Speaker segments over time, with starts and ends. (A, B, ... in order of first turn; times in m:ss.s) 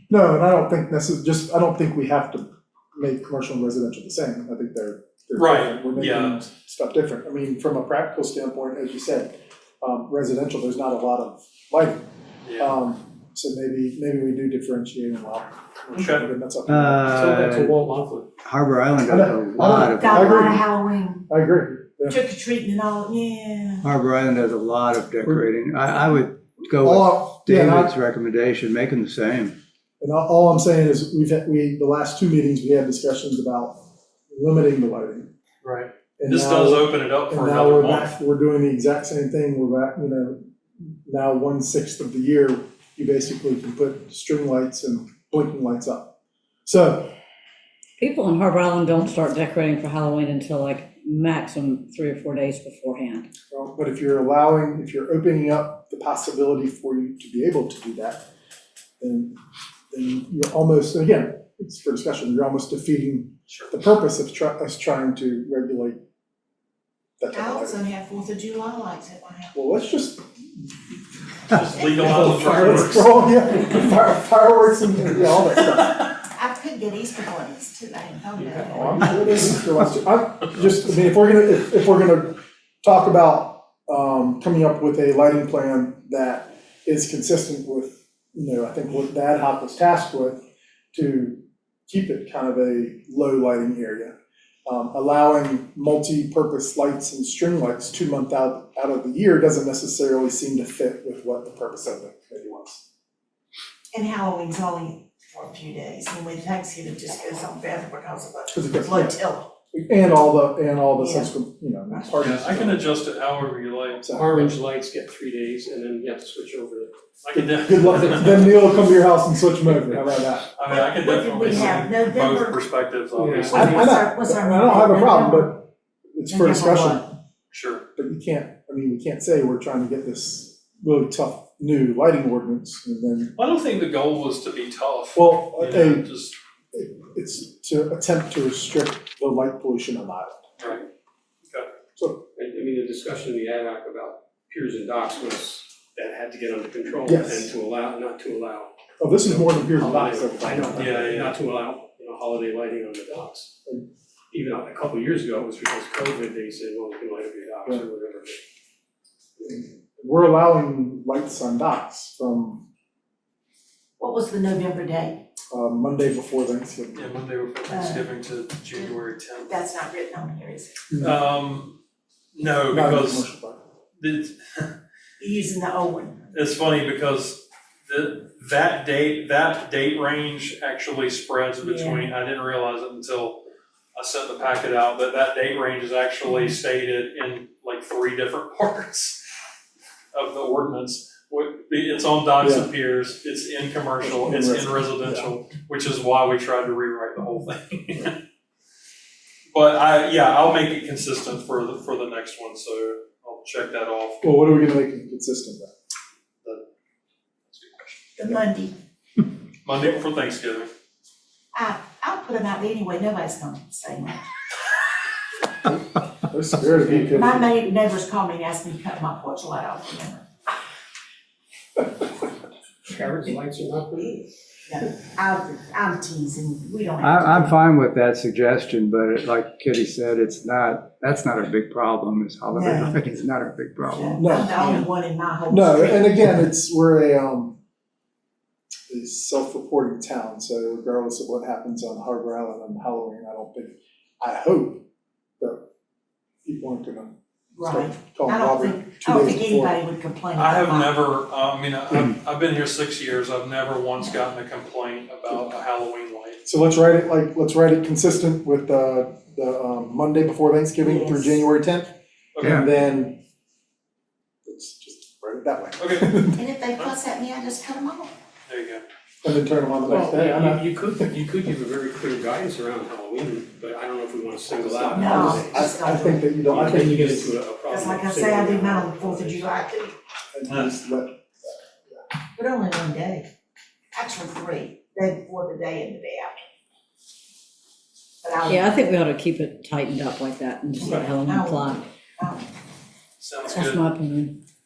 0:00.1-0:12.0 A
0:05.4-0:06.4 B
0:12.4-0:12.7 B
0:12.6-0:17.0 A
0:15.9-0:16.3 B
0:16.7-0:17.8 C
0:17.0-0:18.3 D
0:18.4-0:20.6 C
0:19.1-0:20.7 A
0:19.6-0:21.3 E
0:21.3-0:22.2 A
0:22.1-0:23.8 E
0:23.8-0:29.5 C
0:26.8-0:27.9 A
0:30.0-0:35.3 A
0:35.6-0:38.1 B
0:36.2-0:46.1 A
0:46.6-0:47.1 A
0:48.0-0:53.3 F
0:53.5-0:58.2 A
0:59.0-0:59.4 A
0:59.9-1:06.0 A
1:03.5-1:03.7 B
1:07.2-1:07.8 A
1:07.3-1:09.5 E
1:09.5-1:10.9 A
1:11.5-1:13.1 B
1:11.6-1:16.0 A
1:12.1-1:13.2 D
1:16.3-1:19.1 E
1:18.4-1:19.7 D
1:18.7-1:34.1 A
1:34.6-1:42.8 A
1:43.9-1:49.5 E
1:48.5-1:49.2 A
1:49.7-1:52.9 A
1:51.0-1:51.3 E
1:51.9-1:52.2 E
1:52.2-1:54.2 B
1:54.0-1:54.5 A
1:54.1-1:57.0 D
1:57.2-1:58.6 B
1:57.3-2:00.5 A
1:59.7-2:00.1 D
2:00.6-2:03.7 B
2:00.7-2:02.6 E
2:03.2-2:03.9 D
2:03.5-2:05.6 E
2:03.5-2:05.6 A
2:06.1-2:07.0 A
2:06.3-2:07.1 E
2:07.5-2:07.8 B
2:08.0-2:13.4 A
2:13.4-2:16.3 B
2:15.1-2:16.1 A
2:16.7-2:20.4 A
2:20.6-2:20.8 B
2:22.0-2:22.2 A
2:22.4-2:33.6 D
2:27.0-2:27.5 A
2:29.0-2:31.2 A
2:30.8-2:31.3 B
2:34.3-2:38.4 D
2:39.4-2:42.6 A
2:44.0-2:45.2 E
2:45.5-2:47.1 A
2:46.9-2:49.5 B
2:47.7-2:48.1 E
2:49.4-2:50.8 E
2:50.9-2:51.2 A
2:51.0-2:51.8 B
2:52.3-2:53.3 B
2:52.7-2:53.6 A
2:54.0-2:54.7 B
2:55.2-2:56.2 E
2:56.3-3:03.4 B
3:01.6-3:02.1 E
3:03.9-3:09.2 B
3:10.1-3:18.1 B
3:12.4-3:12.7 A
3:14.0-3:15.3 A
3:19.5-3:24.3 B
3:24.2-3:25.7 A
3:27.5-3:28.0 B
3:28.2-3:28.7 E
3:29.6-3:30.7 B
3:31.5-3:34.2 E
3:36.3-3:37.4 A
3:36.6-3:37.4 D
3:37.1-3:40.2 E
3:42.9-3:44.3 D
3:44.6-3:47.6 E
3:47.0-3:54.2 C
3:52.5-3:53.0 E
3:53.8-3:56.3 E
3:54.2-3:54.7 A
3:54.6-3:54.9 F
3:55.5-3:57.6 A
3:58.9-4:04.8 A
4:06.4-4:09.8 A
4:07.6-4:11.0 E
4:10.3-4:16.4 B
4:16.4-4:21.9 A
4:20.8-4:21.4 E
4:22.4-4:22.6 B
4:22.4-4:23.2 A
4:24.4-4:26.4 A
4:25.8-4:26.2 B
4:26.3-4:28.1 E
4:28.5-4:28.8 B
4:29.2-4:31.1 A
4:29.8-4:35.6 D
4:34.5-4:37.4 A
4:34.9-4:36.3 E
4:36.5-4:39.5 D
4:37.7-4:40.0 E
4:40.3-4:42.0 A
4:40.5-4:40.7 B
4:42.4-4:43.2 E
4:43.9-4:46.3 E
4:48.2-4:48.7 E
4:48.4-4:51.8 F
4:50.8-4:52.4 E
4:53.2-4:53.8 B
4:53.5-4:54.4 F